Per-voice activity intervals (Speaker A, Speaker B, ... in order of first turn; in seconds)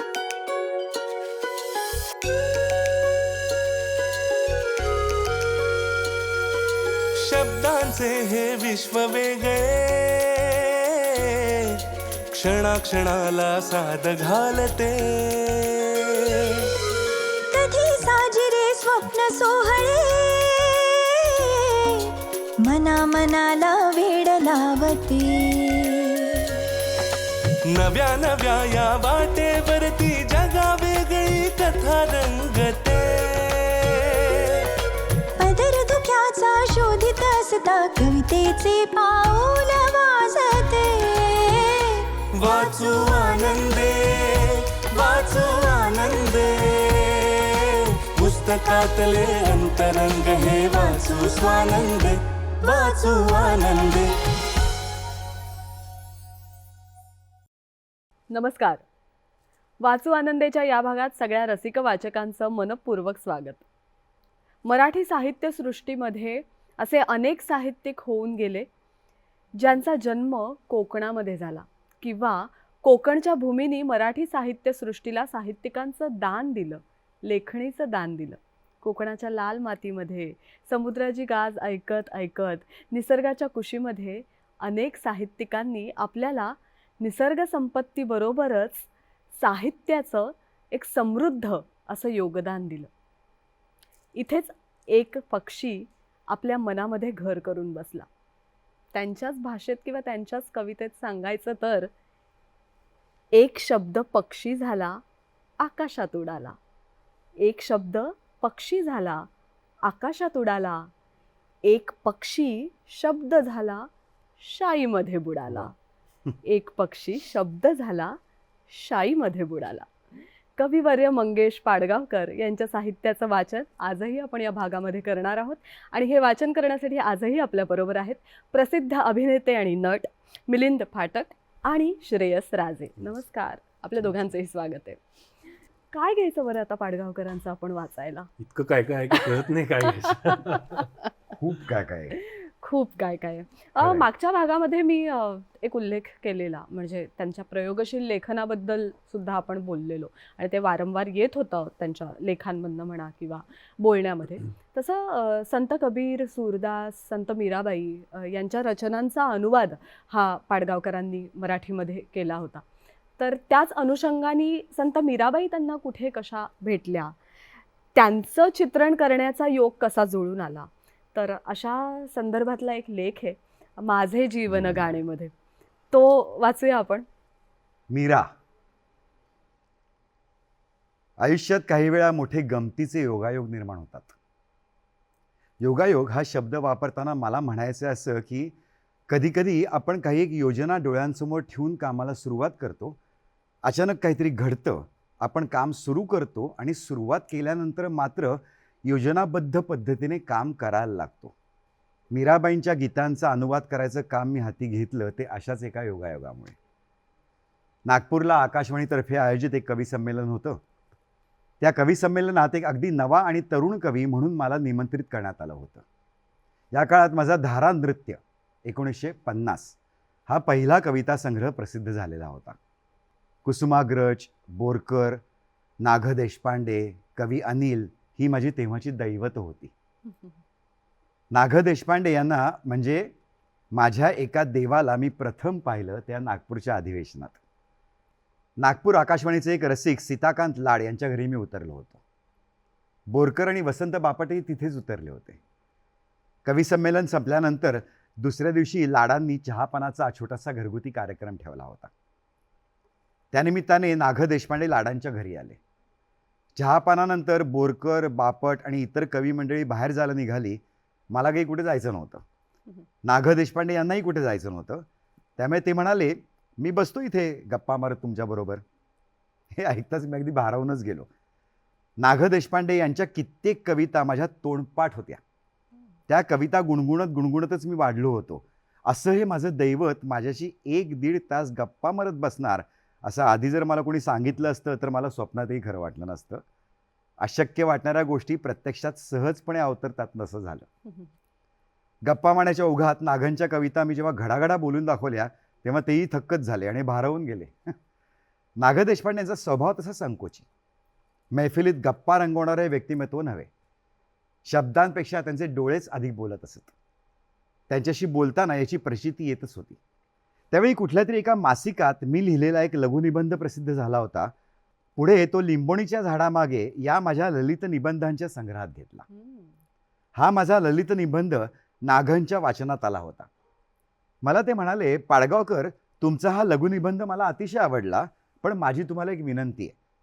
Speaker A: 7.2-11.8, 12.3-16.7, 27.7-34.7, 42.3-54.3
Speaker B: 17.5-26.6, 35.4-42.2
Speaker C: 58.3-58.8, 59.8-63.6, 64.6-68.7, 69.6-92.9, 94.2-98.1, 98.9-101.9, 103.3-105.0, 105.6-106.6, 107.4-109.3, 109.8-110.9, 111.7-113.9, 114.4-115.7, 116.4-119.9, 120.5-135.0, 135.9-138.3, 140.0-140.8, 142.1-162.6, 163.2-167.2, 167.9-175.3, 175.9-177.1, 319.1-319.6
Speaker D: 138.4-140.8
Speaker E: 141.4-142.2, 143.8-144.1, 174.5-174.9, 177.9-178.3, 181.2-184.2, 185.6-188.5, 189.1-193.0, 193.6-201.3, 202.1-206.6, 207.8-210.6, 211.6-215.8, 216.7-219.8, 220.3-222.6, 223.4-225.2, 225.8-229.7, 231.3-233.1, 233.7-237.4, 238.6-242.0, 243.1-245.4, 246.4-251.9, 253.3-255.6, 256.6-262.2, 263.0-264.9, 265.4-268.6, 269.5-271.1, 272.0-275.2, 276.1-286.4, 287.2-290.7, 292.0-297.8, 298.6-300.5, 301.3-303.5, 304.4-306.7, 307.7-309.8, 310.5-314.3, 315.0-319.0, 320.1-323.3, 324.2-329.7